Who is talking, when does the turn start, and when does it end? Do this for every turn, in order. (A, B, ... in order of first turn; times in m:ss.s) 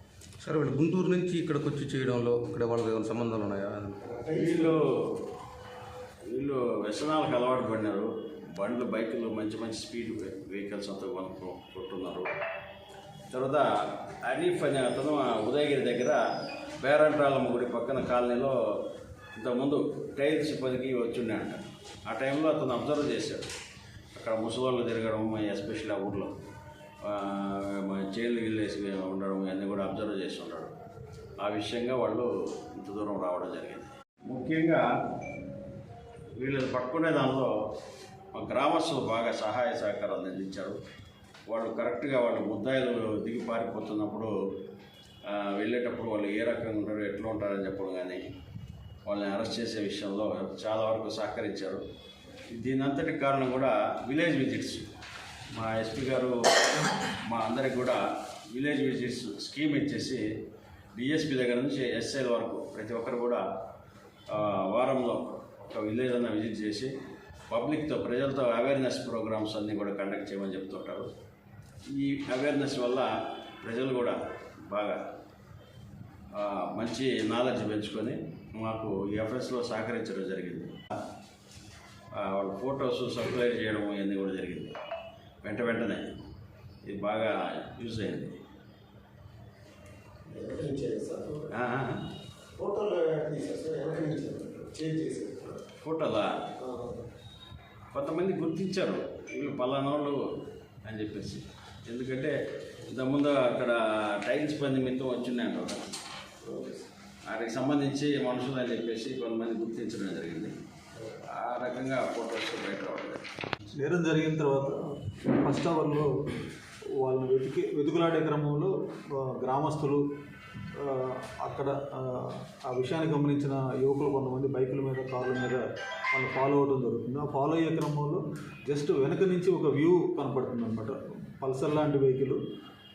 0:00.4-0:04.0 A
0:04.0-0:04.8 B
0:04.3-0:05.2 C
0:06.3-0:12.3 C
0:13.3-0:16.2 C
0:16.8-0:18.8 C
0:19.4-0:23.5 C
0:24.1-0:26.3 C
0:27.0-0:30.7 C
0:31.4-0:34.8 C
0:36.4-0:37.5 C
0:38.3-0:40.8 C
0:41.5-0:44.3 C
0:45.2-0:48.2 C
0:49.0-0:51.8 C
0:52.5-0:54.9 C
0:55.5-1:00.2 C
1:01.0-1:03.4 C
1:04.3-1:06.9 C
1:07.5-1:11.1 C
1:11.9-1:15.0 C
1:16.3-1:20.8 C
1:22.1-1:24.8 C
1:25.4-1:26.1 C
1:26.8-1:28.4 C
1:30.3-1:31.5 B
1:31.5-1:32.0 C
1:32.6-1:35.6 B
1:35.8-1:36.5 C
1:36.6-1:37.0 B
1:37.9-1:40.2 C
1:40.8-1:45.9 C
1:46.4-1:46.8 B
1:47.3-1:50.5 C
1:51.2-1:53.2 C
1:53.7-1:56.4 D
1:57.0-2:00.0 D
2:00.7-2:12.4 D